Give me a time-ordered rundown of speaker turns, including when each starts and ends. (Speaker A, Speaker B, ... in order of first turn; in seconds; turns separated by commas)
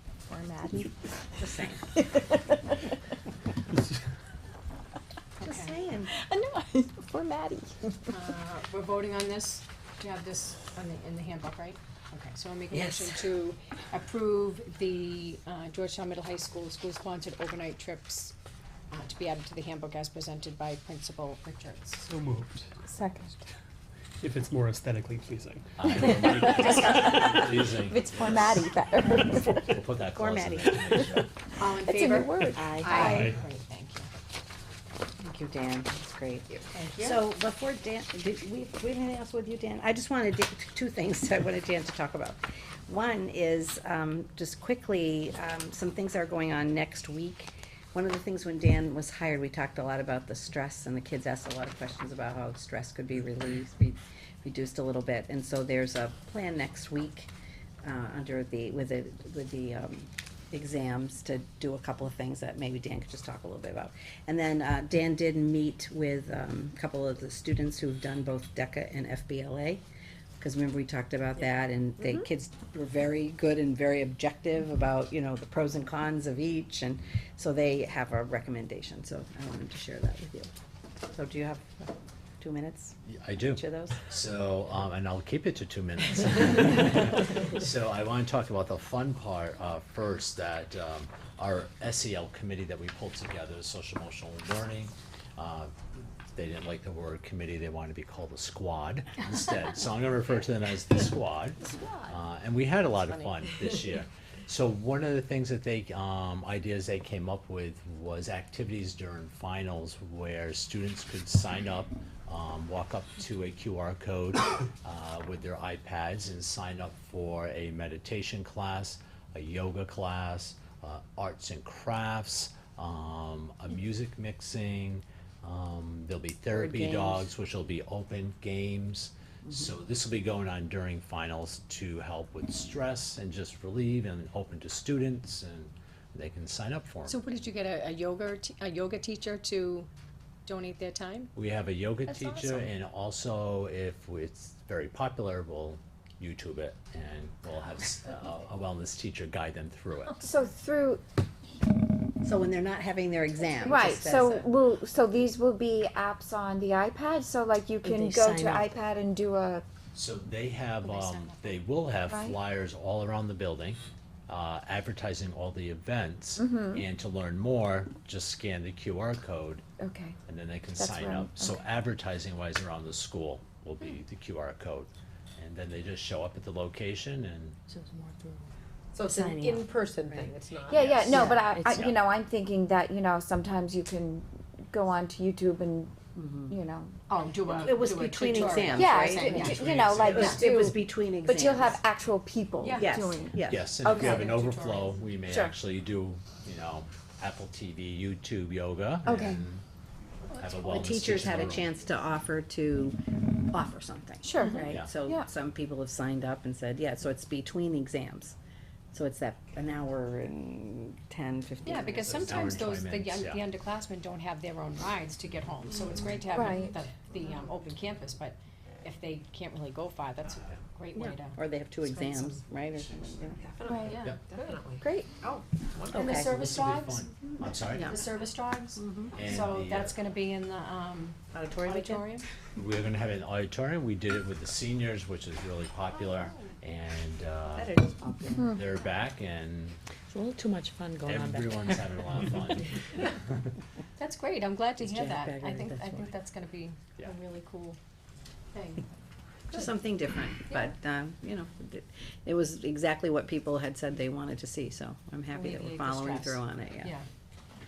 Speaker A: 0.3-0.9, Speaker B: 1.4-2.0, Speaker A: 1.9-2.8, Speaker C: 5.4-5.7, Speaker B: 5.4-6.1, Speaker A: 6.1-8.0, Speaker C: 8.1-18.3, Speaker B: 12.7-13.2, Speaker C: 18.9-22.1, Speaker D: 22.1-22.7, Speaker A: 22.8-23.4, Speaker D: 24.2-26.2, Speaker E: 25.8-28.6, Speaker A: 26.0-29.7, Speaker E: 29.5-31.3, Speaker B: 30.1-31.1, Speaker C: 31.6-34.1, Speaker A: 31.7-33.3, Speaker B: 32.5-33.2, Speaker D: 33.0-33.4, Speaker B: 35.2-57.3, Speaker C: 36.7-37.1, Speaker B: 57.8-69.8, Speaker B: 70.4-80.5, Speaker A: 72.0-72.3, Speaker B: 81.1-84.0, Speaker E: 83.0-95.7, Speaker E: 96.3-137.3, Speaker B: 126.5-127.2, Speaker C: 137.1-139.9, Speaker C: 140.4-141.3, Speaker E: 141.3-150.2, Speaker C: 142.1-142.7, Speaker A: 150.2-151.0, Speaker B: 152.2-154.5, Speaker A: 153.6-159.6, Speaker F: 157.8-158.7, Speaker E: 159.9-169.6, Speaker C: 160.8-161.7, Speaker A: 162.1-162.4, Speaker A: 166.4-166.8, Speaker A: 169.8-170.2, Speaker E: 170.3-177.6, Speaker A: 170.7-171.6, Speaker F: 177.7-178.4, Speaker G: 178.9-181.1, Speaker B: 179.0-180.3, Speaker A: 180.7-186.0, Speaker B: 181.0-181.5, Speaker F: 181.1-181.9, Speaker B: 186.2-186.5, Speaker A: 186.5-186.9, Speaker C: 187.1-190.5, Speaker B: 187.6-191.8, Speaker A: 188.7-194.3, Speaker E: 189.7-190.3, Speaker C: 192.6-193.0, Speaker B: 192.7-193.6, Speaker E: 193.4-199.6, Speaker C: 193.8-195.0, Speaker A: 195.3-195.6, Speaker A: 199.1-199.4, Speaker C: 200.3-200.7, Speaker E: 200.4-201.7, Speaker B: 200.7-203.0, Speaker B: 203.5-208.3, Speaker A: 204.2-205.2, Speaker C: 204.4-204.7, Speaker B: 208.9-212.5, Speaker C: 211.6-222.4, Speaker E: 211.9-213.4, Speaker A: 216.3-216.7, Speaker B: 220.9-223.5, Speaker G: 223.6-224.8, Speaker A: 223.7-224.0, Speaker C: 223.8-224.6, Speaker A: 224.8-225.1, Speaker G: 225.7-226.2, Speaker B: 225.9-226.3, Speaker C: 225.9-227.1, Speaker E: 226.2-227.9, Speaker B: 227.7-228.0, Speaker C: 227.8-232.2, Speaker B: 228.8-229.1, Speaker E: 229.1-229.9, Speaker B: 231.3-232.0, Speaker E: 232.6-237.9, Speaker B: 237.6-238.5, Speaker A: 238.3-238.6, Speaker E: 238.5-239.8, Speaker F: 240.1-241.8, Speaker E: 241.0-242.7, Speaker C: 244.0-247.8, Speaker B: 244.8-246.0, Speaker C: 248.5-248.8, Speaker B: 249.5-256.9, Speaker C: 255.3-257.1